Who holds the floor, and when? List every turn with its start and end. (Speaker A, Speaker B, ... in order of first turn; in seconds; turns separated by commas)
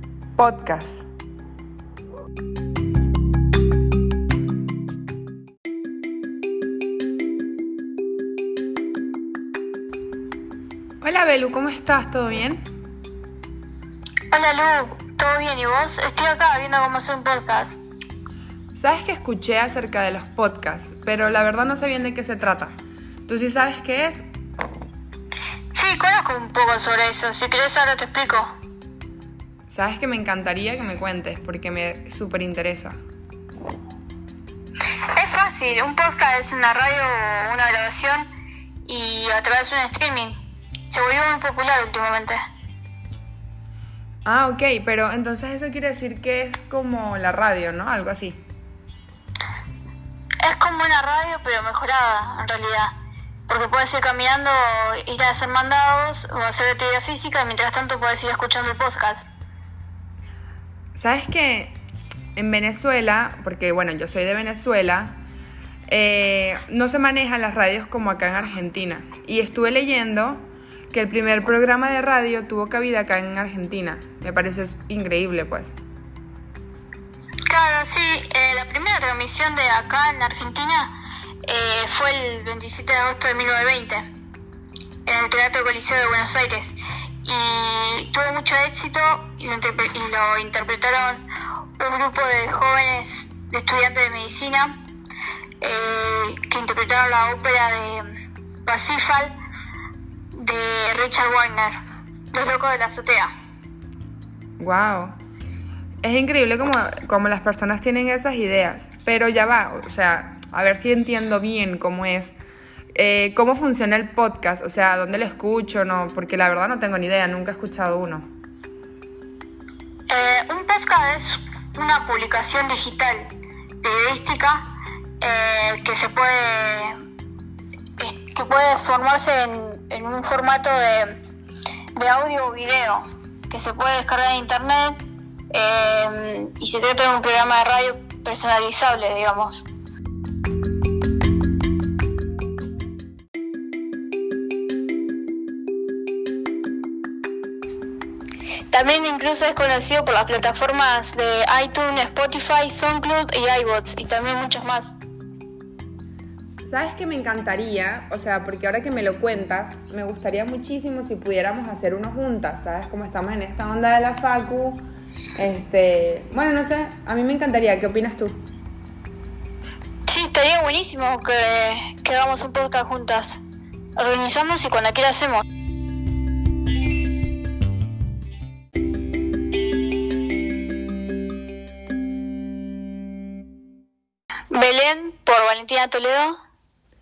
Speaker A: 0.4-1.0, Speaker A: 11.0-12.7, Speaker B: 14.3-17.8, Speaker A: 18.7-24.2, Speaker B: 25.7-28.5, Speaker A: 29.7-33.0, Speaker B: 35.1-38.3, Speaker B: 38.8-40.3, Speaker B: 40.9-42.4, Speaker A: 44.2-48.4, Speaker B: 50.4-53.0, Speaker B: 53.5-59.3, Speaker A: 61.0-61.8, Speaker A: 62.4-65.2, Speaker A: 65.9-75.7, Speaker B: 77.5-84.0, Speaker B: 85.0-91.2, Speaker B: 91.8-94.8, Speaker B: 95.6-98.1, Speaker B: 98.7-99.3, Speaker B: 100.3-101.7, Speaker B: 102.3-103.3, Speaker A: 104.6-105.2, Speaker A: 106.0-112.3, Speaker A: 112.9-118.3, Speaker B: 120.1-123.3, Speaker B: 123.8-126.9, Speaker B: 128.0-131.2, Speaker B: 131.9-139.7, Speaker B: 148.7-154.9, Speaker A: 156.7-164.8, Speaker A: 165.4-168.4, Speaker B: 170.1-173.4, Speaker B: 174.0-175.4, Speaker B: 184.5-186.4